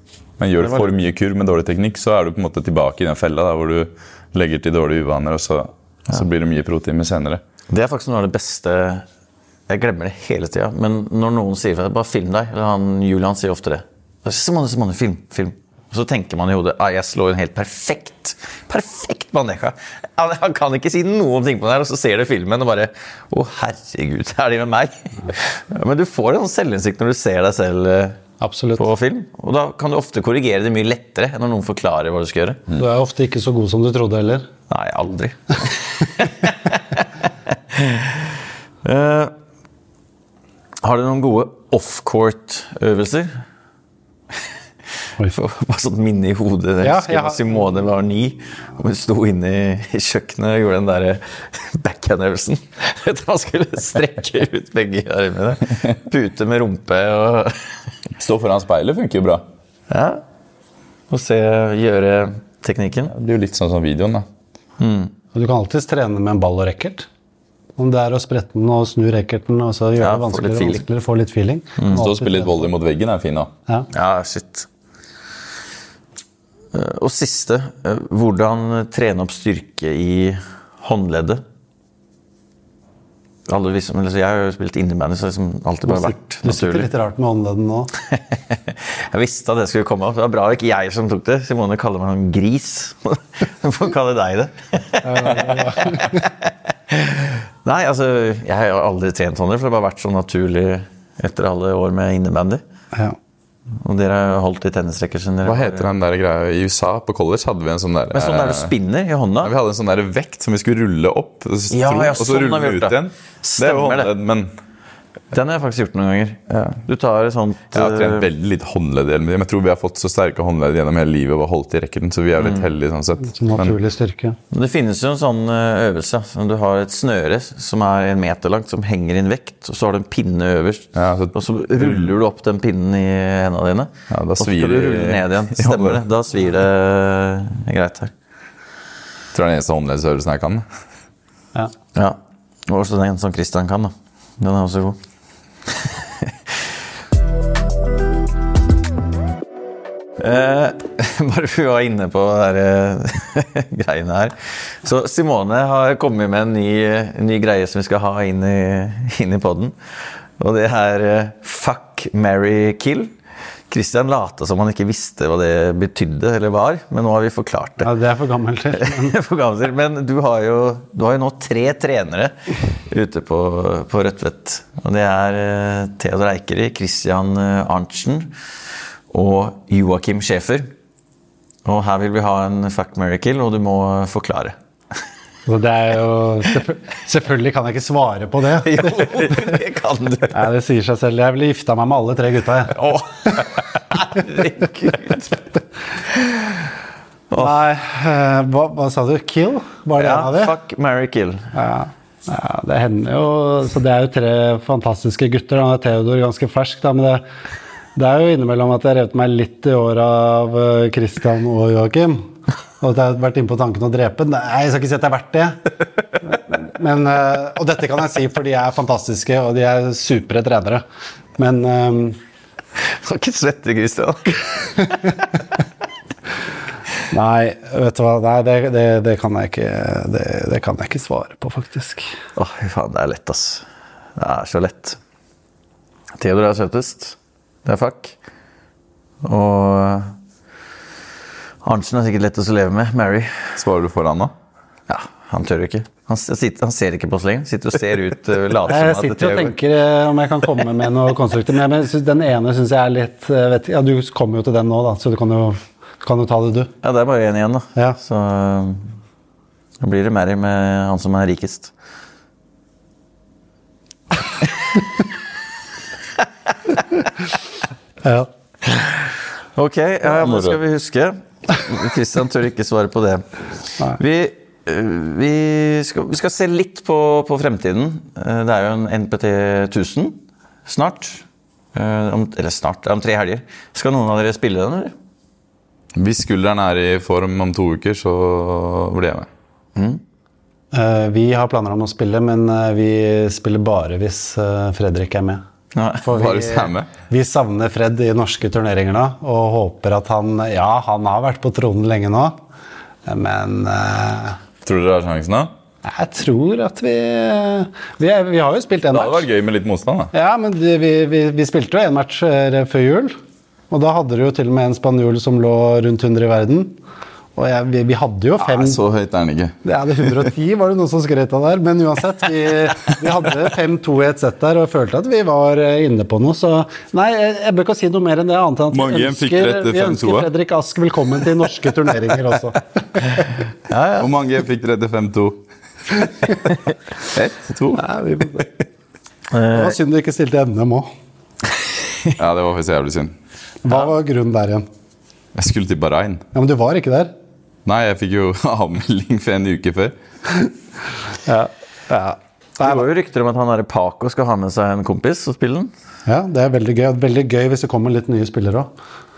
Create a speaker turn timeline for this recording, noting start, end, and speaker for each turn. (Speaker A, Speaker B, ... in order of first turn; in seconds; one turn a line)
Speaker A: 0.4-7.4
Speaker B: 0.6-0.9
Speaker B: 7.7-9.0
Speaker B: 9.7-28.2
Speaker C: 28.4-28.8
Speaker B: 28.8-32.7
Speaker C: 32.7-34.5
Speaker B: 34.7-39.3
Speaker B: 40.8-43.4
Speaker B: 45.2-57.8
Speaker C: 46.8-47.9
Speaker A: 58.2-59.4
Speaker B: 59.9-60.2
Speaker B: 61.1-63.1
Speaker A: 63.1-64.3
Speaker B: 64.8-65.1
Speaker C: 65.3-67.1
Speaker C: 67.8-72.7
Speaker B: 70.0-70.8
Speaker B: 71.8-72.0
Speaker A: 71.9-73.5
Speaker B: 73.9-74.7
Speaker B: 76.7-81.4
Speaker B: 83.5-86.9
Speaker C: 85.9-87.9
Speaker B: 88.0-102.6
Speaker C: 95.0-96.2
Speaker B: 103.8-105.9
Speaker A: 105.4-108.7
Speaker B: 108.1-109.5
Speaker A: 109.4-114.5
Speaker B: 111.7-114.1
Speaker B: 115.3-118.3
Speaker A: 116.5-116.8
Speaker A: 117.7-123.8
Speaker C: 123.3-124.4
Speaker B: 124.5-138.1
Speaker A: 130.9-132.1
Speaker A: 134.1-136.0
Speaker A: 139.3-140.7
Speaker B: 141.9-145.0
Speaker B: 145.7-146.6
Speaker B: 150.2-163.1
Speaker B: 163.7-167.9
Speaker C: 167.8-169.2
Speaker B: 168.7-178.3
Speaker B: 179.1-180.7
Speaker B: 181.6-184.6
Speaker C: 185.4-189.5
Speaker B: 188.5-190.4
Speaker C: 190.3-192.8
Speaker B: 192.7-195.4
Speaker B: 196.0-196.7
Speaker B: 197.3-197.6
Speaker C: 197.4-200.6
Speaker B: 199.9-201.5
Speaker C: 201.5-207.2
Speaker C: 207.9-215.6
Speaker C: 216.2-220.8
Speaker C: 221.4-222.2
Speaker B: 222.8-225.4
Speaker C: 227.1-232.2
Speaker B: 232.3-233.7
Speaker B: 234.2-235.0
Speaker B: 236.2-238.1
Speaker B: 239.2-240.1
Speaker B: 241.6-243.6
Speaker A: 243.6-244.3
Speaker B: 244.9-249.6
Speaker C: 248.6-256.7
Speaker B: 256.8-258.9
Speaker B: 259.8-261.7
Speaker C: 268.0-268.3
Speaker B: 268.6-284.9
Speaker A: 270.2-270.6
Speaker A: 285.9-289.3
Speaker B: 289.8-290.0
Speaker C: 290.7-295.4
Speaker B: 295.7-296.1
Speaker C: 296.0-302.4
Speaker A: 296.1-296.9
Speaker C: 303.1-304.4
Speaker A: 304.6-305.5
Speaker C: 305.8-309.2
Speaker A: 308.9-310.1
Speaker C: 310.1-313.1
Speaker C: 313.7-316.8
Speaker C: 317.4-318.8
Speaker A: 318.4-319.6
Speaker C: 319.6-333.3
Speaker A: 328.7-330.3
Speaker B: 333.7-334.1
Speaker A: 334.0-335.4
Speaker A: 337.0-338.4
Speaker C: 337.8-338.5
Speaker B: 339.3-339.8
Speaker C: 339.5-340.9
Speaker A: 342.2-343.1
Speaker C: 343.6-344.7
Speaker A: 345.3-346.2
Speaker C: 346.3-347.1
Speaker A: 347.6-349.9
Speaker C: 351.2-352.8
Speaker B: 352.6-355.7
Speaker C: 356.1-358.7